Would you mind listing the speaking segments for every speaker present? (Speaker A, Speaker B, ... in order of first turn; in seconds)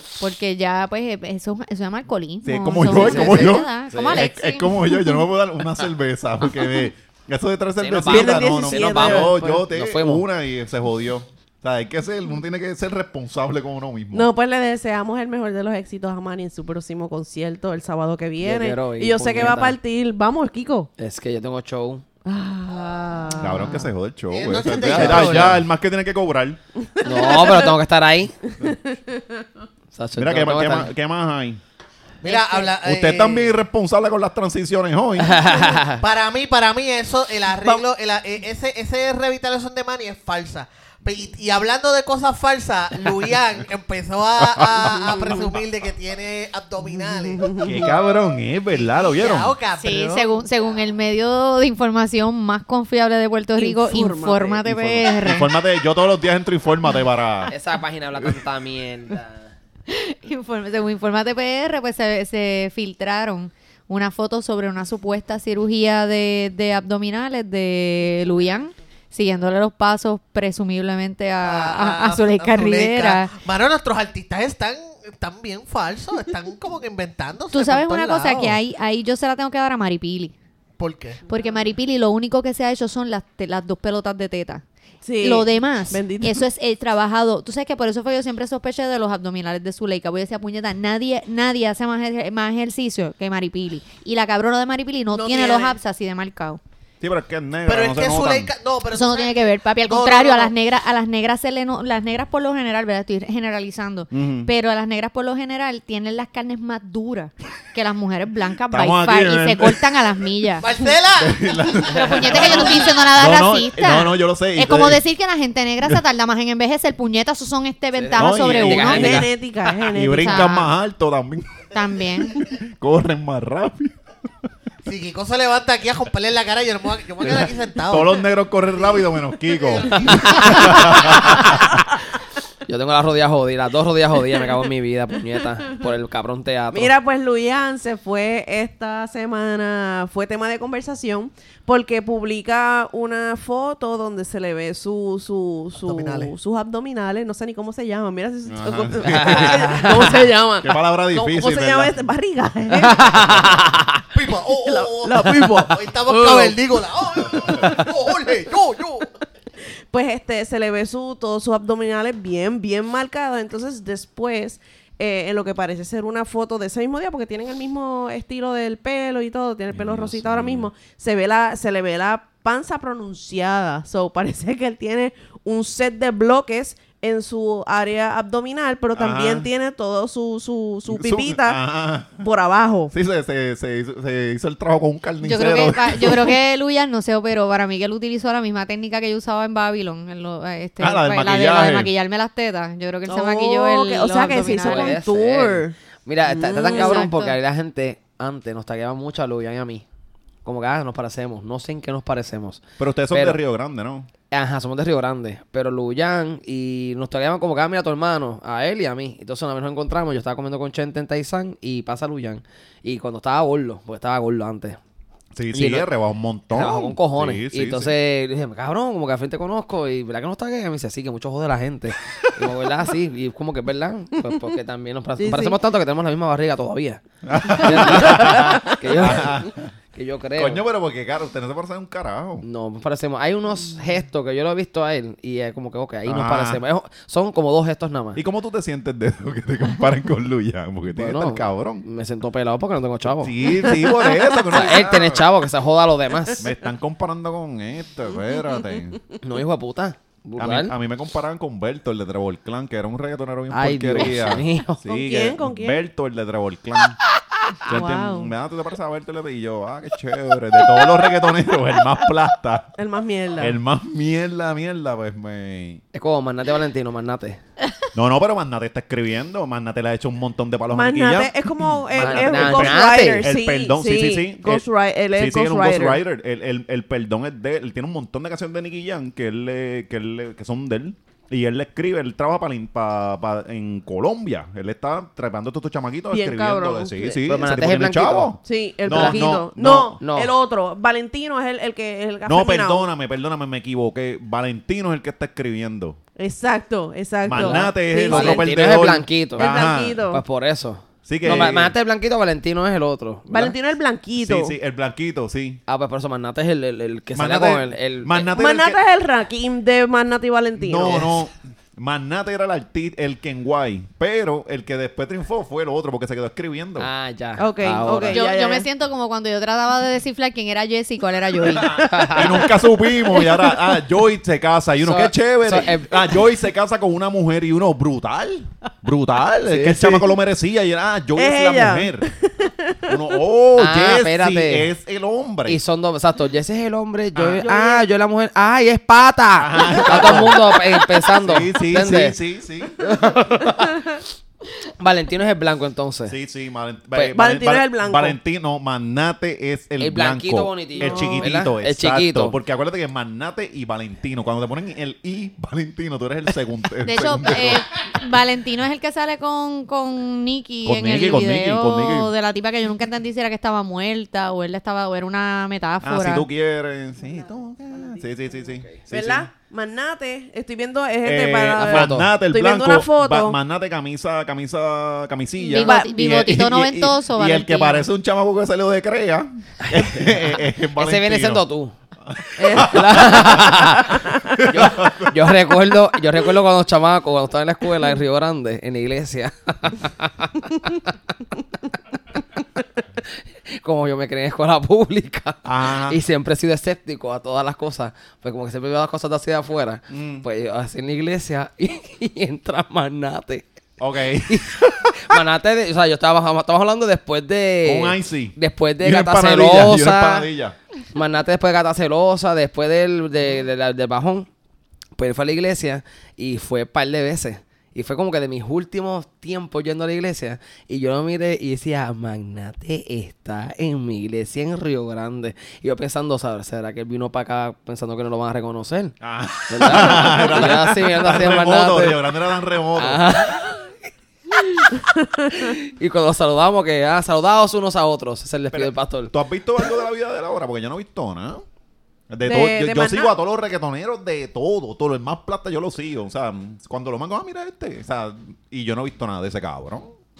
Speaker A: 0.2-4.9, 49.8-55.5, 59.9-73.3, 77.5-80.3, 81.3-84.6, 85.2-96.6, 98.9-110.7, 111.8-119.3, 120.1-120.7, 121.7-122.5, 185.2-195.0, 196.6-197.4, 318.1-321.8, 356.9-366.3, 375.5-377.9
Speaker B: 2.4-14.3, 23.4-26.6, 30.2-31.6, 32.8-35.5, 44.4-45.1, 47.6-49.6, 54.7-57.5, 97.0-98.5, 104.1-104.5, 108.7-109.8, 111.2-115.0, 118.2-119.3, 119.9-121.6, 122.3-124.0, 127.2-131.8, 148.5-151.9, 169.7-170.7, 178.9-179.5, 180.9-182.2, 182.9-186.3, 190.8-191.9, 202.8-204.1, 215.3-217.9, 227.2-229.7, 230.4-232.4, 236.1-236.6, 238.2-241.9, 243.2-245.3, 246.4-249.0, 250.4-257.0, 257.7-262.7, 263.4-265.8, 267.9-290.0, 292.2-296.0, 297.2-300.0, 301.1-301.8, 304.2-305.6, 307.1-308.8, 310.6-316.9, 322.1-332.1, 332.9-335.6, 339.4-340.5, 341.2-342.9, 346.1-357.6, 360.6-362.1, 365.8-369.3, 371.0-381.5, 382.0-383.8, 384.3-385.2, 395.4-396.0, 399.9-400.3, 403.8-405.2, 407.6-410.6, 429.0-433.3, 438.5-441.4, 442.1-449.9
Speaker C: 2.9-4.2, 7.8-10.2, 18.4-19.8, 21.0-22.0, 24.7-25.6, 27.0-28.4, 29.9-30.9, 35.2-36.0, 57.5-59.5, 117.9-119.3, 130.0-131.3, 132.7-136.9, 149.1-150.2, 152.7-153.4, 194.5-199.8, 200.4-203.4, 204.3-214.8, 215.5-215.9, 216.5-230.6, 232.4-238.2, 240.9-243.5, 244.5-246.5, 249.2-250.7, 253.5-254.8, 265.9-267.4, 271.9-273.3, 287.1-289.4, 290.0-290.3, 297.3-303.6, 305.7-308.3, 316.8-318.2, 321.6-322.5, 324.8-326.3, 329.5-330.1, 333.6-334.7, 335.5-342.2, 342.8-344.0, 344.8-346.1, 349.8-352.4, 371.6-372.1, 379.6-381.7, 382.6-390.8, 393.0-403.5, 404.3-410.3, 410.9-414.3, 415.0-429.0, 429.5-432.2, 432.8-433.7, 434.3-434.8, 435.3-439.1
Speaker D: 8.0-9.6, 14.1-20.9, 22.2-23.9, 26.8-27.7, 28.6-29.5, 32.3-32.7, 45.1-45.5, 47.1-47.8, 53.6-54.6, 85.0-86.5, 118.8-120.5, 136.7-153.8, 154.6-156.6, 157.2-157.9, 159.9-181.6, 182.2-182.9, 193.1-197.1, 225.2-225.6, 243.7-244.2, 254.9-255.8, 257.7-258.3, 262.8-263.6, 270.7-276.0, 286.1-287.2, 288.4-292.9, 296.2-298.5, 299.4-300.2, 303.3-304.6, 308.4-311.2, 317.4-318.7, 321.6-323.5, 331.2-333.0, 337.3-337.9, 347.1-348.2, 350.8-351.3, 367.8-368.0, 368.9-373.4, 375.5-375.9, 382.4-384.4, 442.2-443.1
Speaker E: 22.7-23.0, 24.3-25.6, 32.2-33.6, 36.0-47.9, 48.7-50.5, 71.4-78.6, 80.8-81.2, 95.1-95.7, 97.7-100.5, 110.6-113.0, 124.8-128.2, 129.5-131.4, 145.8-146.3, 154.1-159.1